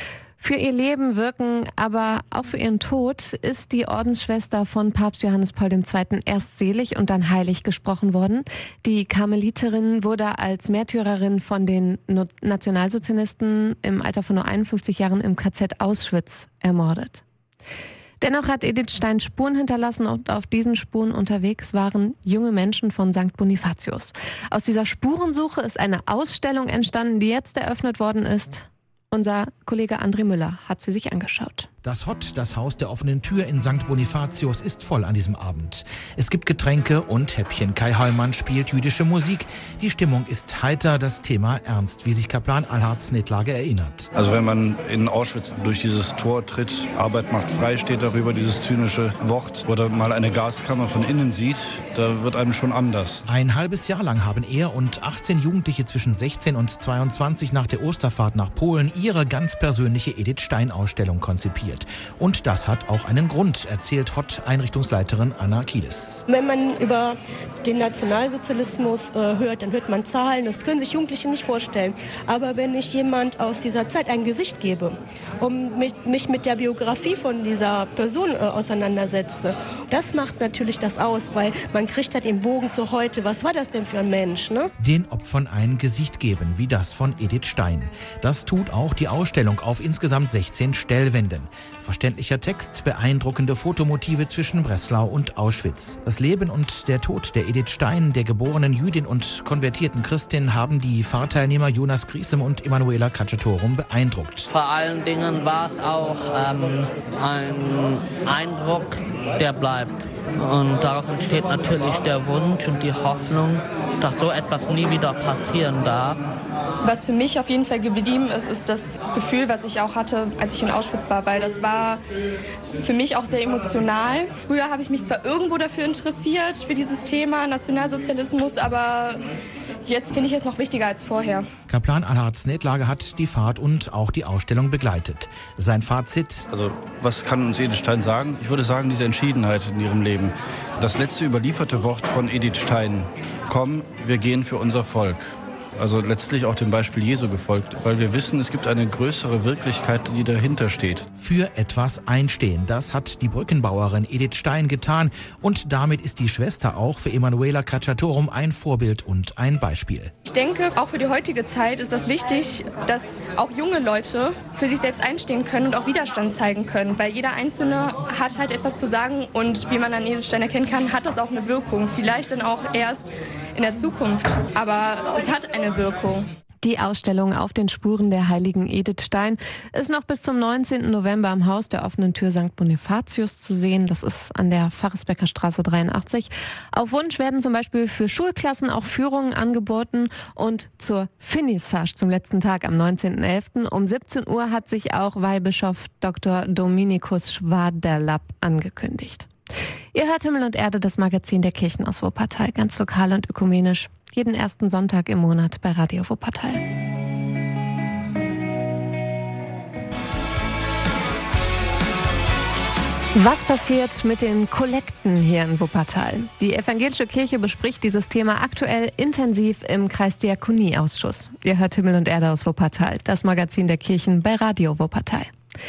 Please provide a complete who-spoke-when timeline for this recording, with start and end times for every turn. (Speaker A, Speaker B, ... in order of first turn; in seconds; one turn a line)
Speaker A: 0.4-17.2
Speaker A: 18.2-31.7
Speaker B: 31.8-44.1
Speaker C: 44.1-53.2
Speaker B: 53.2-66.2
Speaker D: 66.3-84.6
Speaker B: 84.8-104.5
Speaker E: 104.5-116.2
Speaker F: 116.8-122.0
Speaker F: 122.8-129.2
Speaker F: 129.8-131.4
Speaker B: 131.7-136.5
Speaker C: 136.5-145.3
Speaker C: 145.8-151.1
Speaker B: 151.2-160.1
Speaker F: 160.2-176.3
Speaker A: 176.6-199.3
Speaker A: 199.9-206.6
Speaker A: 213.1-225.3